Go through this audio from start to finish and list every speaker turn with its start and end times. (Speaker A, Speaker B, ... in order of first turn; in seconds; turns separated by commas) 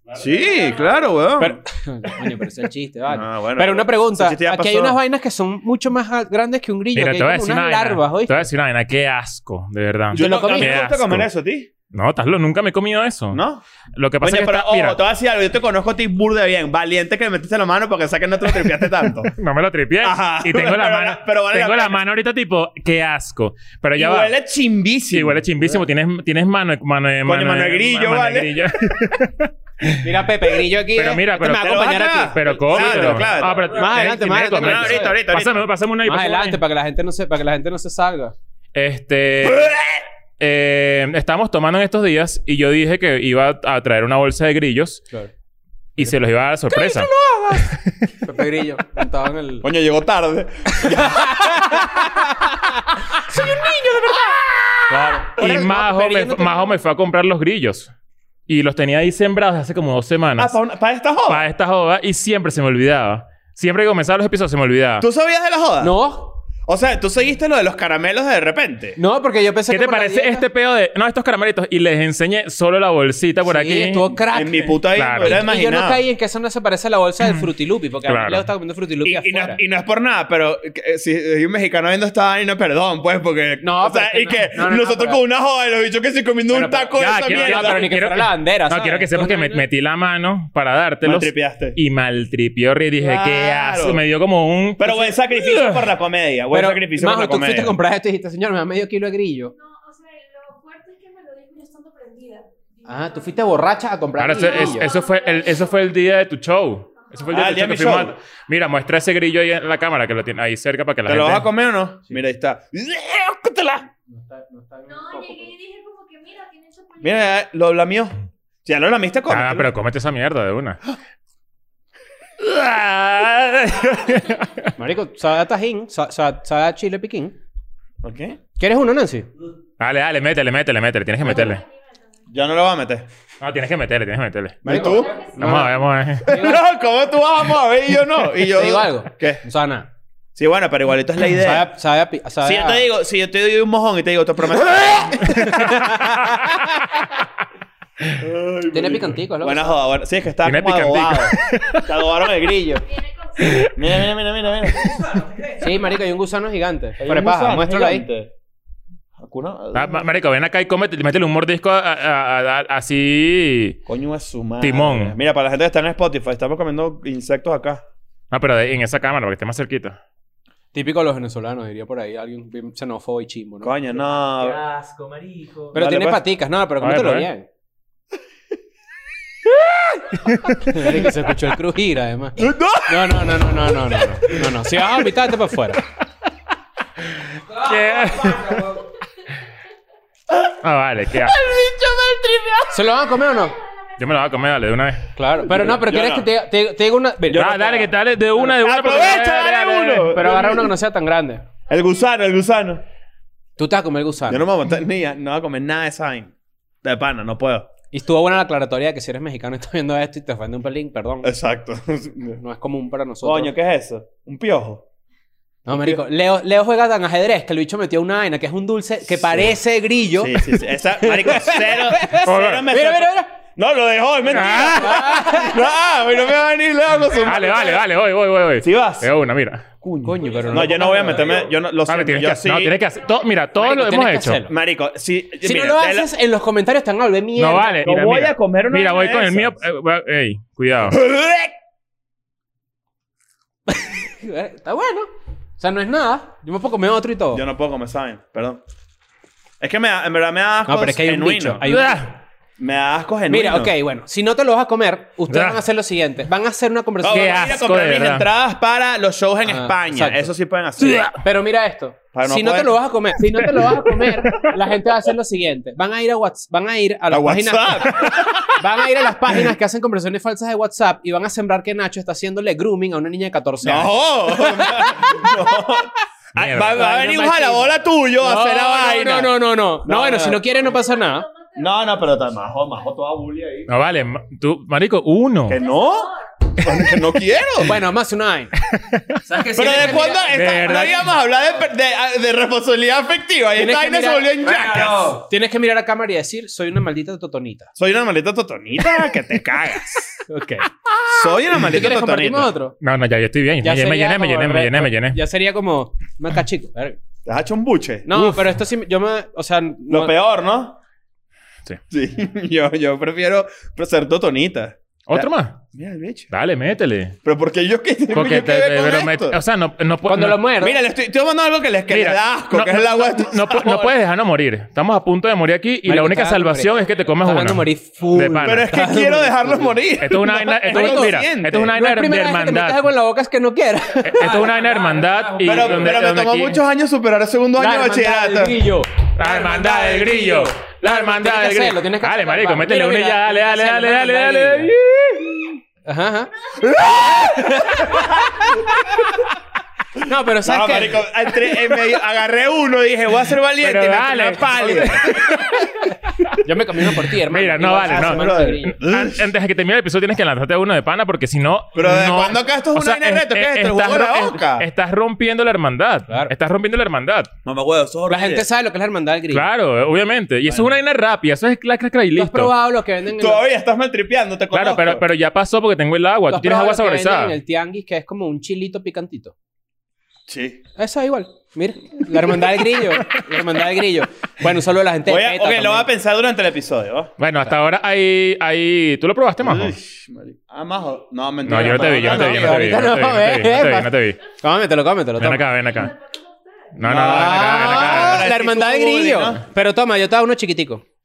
Speaker A: 0.1-1.6, Speaker B: 1.4-8.5, Speaker A: 3.1-5.0, Speaker C: 6.9-11.3, Speaker B: 10.1-10.9, Speaker A: 10.1-11.7, Speaker C: 11.9-13.4, Speaker A: 13.3-13.6, Speaker C: 14.0-15.0, Speaker A: 14.2-19.3, Speaker C: 19.3-24.3, Speaker A: 20.0-22.0, Speaker A: 24.0-25.5, Speaker C: 25.1-30.3, Speaker A: 27.3-29.0, Speaker B: 30.0-35.2, Speaker C: 30.9-36.6, Speaker A: 31.6-33.8, Speaker A: 34.5-35.7, Speaker B: 36.0-38.4, Speaker C: 38.8-39.8, Speaker A: 39.4-40.0, Speaker C: 40.4-45.0, Speaker C: 46.0-48.1, Speaker B: 46.7-47.6, Speaker B: 48.2-49.7, Speaker A: 49.6-52.6, Speaker B: 50.8-56.7, Speaker A: 54.9-55.7, Speaker C: 55.4-57.9, Speaker C: 58.5-60.6, Speaker A: 60.4-61.5, Speaker C: 61.3-65.1, Speaker A: 65.0-65.9, Speaker B: 65.8-66.4, Speaker A: 66.7-69.0, Speaker B: 69.0-70.5, Speaker C: 69.7-74.1, Speaker B: 73.5-79.6, Speaker A: 74.3-76.0, Speaker C: 75.0-75.4, Speaker C: 78.1-78.5, Speaker A: 79.0-87.9, Speaker B: 83.6-85.2, Speaker B: 86.5-89.6, Speaker C: 87.0-95.9, Speaker A: 91.0-91.8, Speaker A: 93.0-94.0, Speaker A: 94.8-97.8, Speaker B: 96.5-99.5, Speaker D: 99.5-106.0, Speaker B: 102.8-104.9, Speaker C: 104.2-111.5, Speaker D: 107.0-107.5, Speaker A: 107.3-108.2, Speaker A: 111.1-113.9, Speaker B: 114.1-115.5, Speaker D: 114.9-117.5, Speaker A: 117.0-119.7, Speaker C: 119.3-120.9, Speaker C: 122.4-124.7, Speaker B: 124.8-127.4, Speaker A: 128.0-128.4, Speaker B: 128.6-129.3, Speaker C: 129.8-131.6, Speaker D: 131.2-132.2, Speaker A: 132.3-133.1, Speaker C: 133.4-136.4, Speaker A: 134.7-135.2, Speaker B: 134.7-135.7, Speaker D: 134.7-136.1, Speaker B: 136.2-136.7, Speaker A: 136.2-139.4, Speaker B: 138.5-139.9, Speaker A: 140.4-141.7, Speaker B: 141.4-142.9, Speaker A: 142.4-147.0, Speaker B: 145.3-146.1, Speaker A: 148.2-152.9, Speaker B: 148.7-149.8, Speaker C: 150.4-151.9, Speaker D: 152.7-153.7, Speaker C: 153.4-154.1, Speaker A: 153.5-155.2, Speaker B: 155.5-158.1, Speaker A: 157.0-158.3, Speaker A: 159.2-160.1, Speaker C: 159.7-163.8, Speaker A: 163.9-167.8, Speaker C: 164.6-165.2, Speaker C: 168.3-170.0, Speaker B: 170.7-173.9, Speaker A: 173.6-174.6, Speaker E: 174.3-175.7, Speaker B: 175.6-177.5, Speaker A: 175.7-176.2, Speaker C: 176.8-177.3, Speaker A: 179.5-180.2, Speaker C: 180.2-180.7, Speaker B: 180.7-185.9, Speaker A: 182.4-183.6, Speaker A: 184.2-184.8, Speaker C: 187.4-188.8, Speaker E: 188.3-188.6, Speaker C: 190.6-191.4, Speaker A: 191.2-192.9, Speaker B: 192.7-193.6, Speaker D: 193.0-193.9, Speaker C: 194.0-195.1, Speaker B: 195.2-197.4, Speaker A: 195.4-196.3, Speaker A: 197.2-197.9, Speaker C: 197.3-200.2, Speaker A: 198.5-200.7, Speaker B: 200.1-201.5, Speaker D: 201.7-202.3, Speaker A: 201.7-202.8, Speaker B: 203.6-204.5, Speaker A: 204.3-207.7, Speaker B: 207.9-211.3, Speaker A: 211.2-212.4, Speaker B: 212.4-213.5, Speaker A: 213.2-214.8, Speaker B: 215.7-223.3, Speaker A: 215.7-216.0, Speaker A: 219.2-219.5, Speaker A: 220.2-227.8, Speaker C: 222.1-222.7, Speaker C: 224.3-225.4, Speaker B: 224.3-225.7, Speaker C: 227.2-229.7, Speaker A: 228.6-229.1, Speaker A: 229.8-232.8, Speaker B: 230.0-231.5, Speaker C: 231.9-234.4, Speaker B: 233.6-234.5, Speaker A: 234.4-236.1, Speaker B: 235.4-237.9, Speaker C: 237.4-241.0, Speaker A: 237.8-239.6, Speaker A: 240.9-241.6, Speaker B: 243.7-247.4, Speaker A: 247.3-248.6, Speaker A: 249.6-251.6, Speaker B: 250.7-252.1, Speaker C: 251.6-252.1, Speaker A: 252.6-253.7, Speaker B: 253.3-257.4, Speaker C: 255.3-255.6, Speaker A: 257.0-261.1, Speaker C: 257.1-258.3, Speaker B: 259.5-260.3, Speaker C: 260.8-261.1, Speaker B: 261.1-275.7, Speaker A: 262.1-262.8, Speaker A: 267.1-268.6, Speaker A: 273.6-280.6, Speaker C: 276.4-276.8, Speaker B: 276.7-281.3, Speaker D: 280.2-282.7, Speaker A: 281.6-283.7, Speaker C: 283.7-285.6, Speaker A: 285.5-287.8, Speaker D: 285.5-286.7, Speaker B: 287.6-288.5, Speaker C: 288.7-291.1, Speaker E: 289.3-290.0, Speaker B: 289.4-290.4, Speaker A: 289.4-295.2, Speaker B: 293.6-297.7, Speaker E: 294.5-295.1, Speaker A: 297.8-300.2, Speaker B: 300.3-300.7, Speaker A: 301.1-302.5, Speaker B: 301.5-302.8, Speaker C: 302.8-305.2, Speaker B: 303.6-307.0, Speaker A: 307.3-308.1, Speaker B: 308.1-310.1, Speaker C: 308.1-308.4, Speaker A: 309.9-310.8, Speaker A: 311.9-316.3, Speaker C: 315.1-315.6, Speaker C: 316.3-317.2, Speaker A: 317.2-319.4, Speaker C: 318.1-320.4, Speaker B: 320.1-320.8, Speaker A: 320.6-323.9, Speaker C: 321.9-328.7, Speaker B: 325.9-329.8, Speaker A: 328.4-331.7, Speaker C: 330.0-332.8, Speaker B: 330.7-334.8, Speaker C: 334.0-336.6, Speaker A: 335.4-338.7, Speaker B: 337.6-344.7, Speaker C: 339.2-345.5, Speaker B: 345.9-349.0, Speaker A: 346.6-348.9, Speaker B: 350.0-351.1, Speaker A: 350.4-355.6, Speaker C: 353.6-356.4, Speaker B: 356.4-358.8, Speaker C: 357.2-367.3, Speaker A: 357.8-359.3, Speaker A: 361.8-364.7, Speaker A: 367.4-368.5, Speaker B: 368.1-369.4, Speaker C: 369.3-372.5, Speaker B: 372.2-373.4, Speaker A: 373.1-375.0, Speaker C: 374.5-377.4, Speaker B: 376.3-379.3, Speaker A: 380.3-380.6, Speaker B: 380.8-385.9, Speaker A: 385.1-387.1, Speaker C: 387.2-389.8, Speaker A: 389.4-392.8, Speaker C: 391.4-394.2, Speaker B: 392.0-395.5, Speaker C: 395.2-395.9, Speaker D: 395.6-396.7, Speaker C: 396.8-398.3, Speaker A: 396.8-399.4, Speaker B: 396.9-400.8